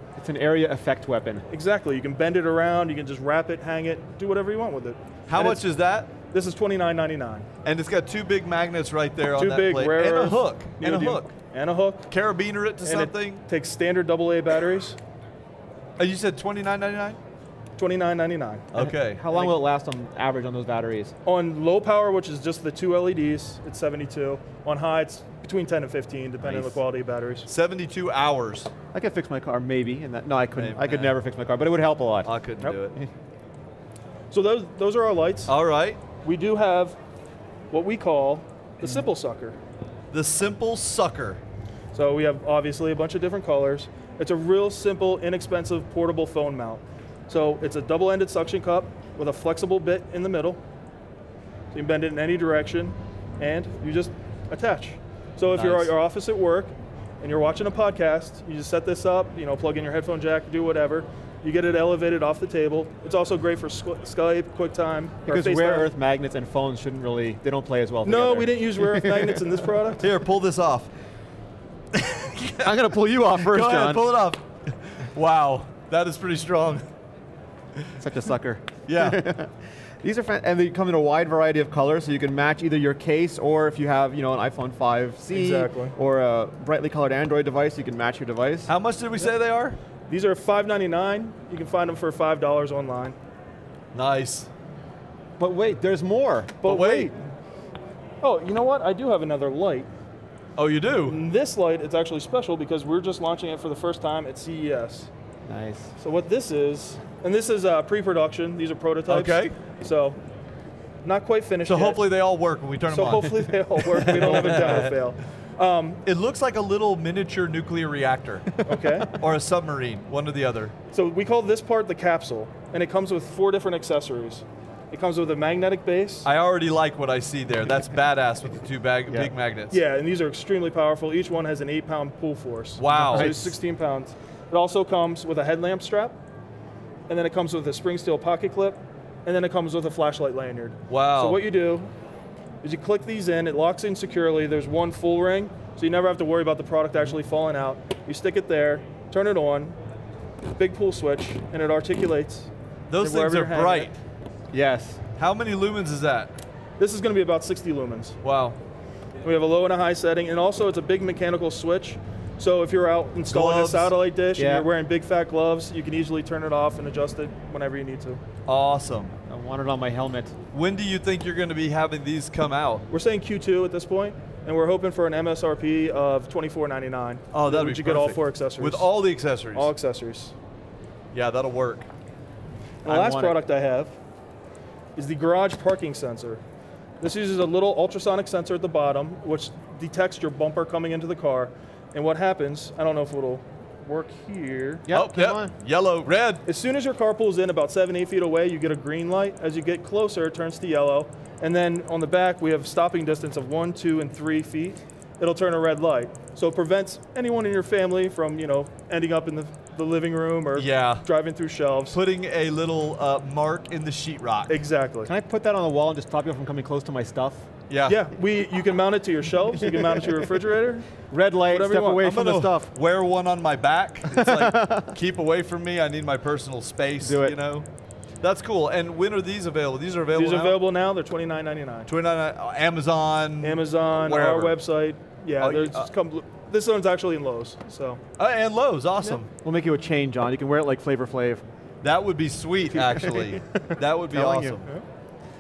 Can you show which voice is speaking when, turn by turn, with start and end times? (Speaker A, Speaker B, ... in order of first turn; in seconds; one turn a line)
Speaker A: 0.2-1.4
Speaker B: 1.5-5.7
Speaker C: 5.3-6.1
Speaker B: 6.2-7.5
Speaker C: 7.6-11.3
Speaker B: 9.3-12.1
Speaker C: 12.1-13.4
Speaker B: 12.8-15.0
Speaker C: 16.0-17.2
Speaker B: 17.8-18.7
Speaker C: 18.7-19.2
Speaker A: 18.7-21.1
Speaker B: 21.2-27.5
Speaker A: 26.4-26.8
Speaker C: 27.5-28.7
Speaker A: 28.9-32.3
Speaker C: 30.6-31.2
Speaker C: 32.2-32.9
Speaker B: 34.3-35.5
Speaker C: 35.5-36.0
Speaker B: 36.2-37.0
Speaker B: 37.7-39.6
Speaker C: 40.1-41.4
Speaker B: 41.9-50.6
Speaker B: 51.7-65.9
Speaker A: 55.5-56.0
Speaker A: 65.2-69.4
Speaker B: 68.0-70.1
Speaker C: 70.0-70.9
Speaker C: 72.0-72.5
Speaker A: 72.5-74.1
Speaker C: 73.4-76.8
Speaker A: 78.0-88.7
Speaker C: 78.9-79.2
Speaker B: 85.3-86.0
Speaker C: 88.7-89.8
Speaker B: 90.1-93.2
Speaker C: 93.9-94.5
Speaker A: 95.4-96.6
Speaker B: 96.6-97.2
Speaker C: 96.7-97.1
Speaker B: 98.2-99.9
Speaker C: 100.6-101.2
Speaker B: 101.0-105.1
Speaker A: 105.5-105.9
Speaker B: 106.0-110.2
Speaker C: 109.1-109.5
Speaker B: 111.0-112.0
Speaker C: 111.7-114.9
Speaker B: 112.9-116.0
Speaker A: 114.2-114.8
Speaker C: 116.0-120.7
Speaker B: 118.7-119.1
Speaker B: 120.9-126.3
Speaker C: 126.2-129.8
Speaker B: 129.7-136.2
Speaker C: 132.8-133.3
Speaker A: 133.0-133.6
Speaker B: 137.1-141.9
Speaker C: 140.9-141.4
Speaker B: 142.6-149.8
Speaker B: 150.5-153.9
Speaker C: 152.9-154.0
Speaker A: 154.5-155.0
Speaker C: 155.2-156.3
Speaker B: 156.8-158.2
Speaker C: 158.2-158.6
Speaker B: 159.2-168.2
Speaker C: 163.3-163.9
Speaker A: 164.4-164.7
Speaker C: 168.5-169.2
Speaker A: 169.3-170.3
Speaker C: 170.5-172.9
Speaker B: 172.9-178.9
Speaker C: 177.3-179.7
Speaker B: 179.5-180.3
Speaker C: 181.1-181.9
Speaker B: 182.8-184.0
Speaker A: 182.8-183.4
Speaker B: 185.0-186.4
Speaker B: 187.0-194.9
Speaker A: 194.9-195.5
Speaker C: 194.9-196.4
Speaker B: 196.5-212.0
Speaker C: 210.6-211.1
Speaker C: 211.9-214.6
Speaker B: 214.5-215.1
Speaker A: 215.0-217.4
Speaker C: 217.7-218.0
Speaker B: 217.9-220.9
Speaker A: 221.1-222.7
Speaker B: 221.5-222.1
Speaker C: 222.0-227.7
Speaker A: 224.1-224.9
Speaker A: 227.0-227.4
Speaker C: 228.2-230.6
Speaker B: 230.1-231.9
Speaker C: 231.9-234.6
Speaker B: 233.4-238.0
Speaker C: 235.4-235.9
Speaker C: 238.2-239.3
Speaker A: 239.4-241.4
Speaker C: 241.8-244.7
Speaker A: 242.7-244.6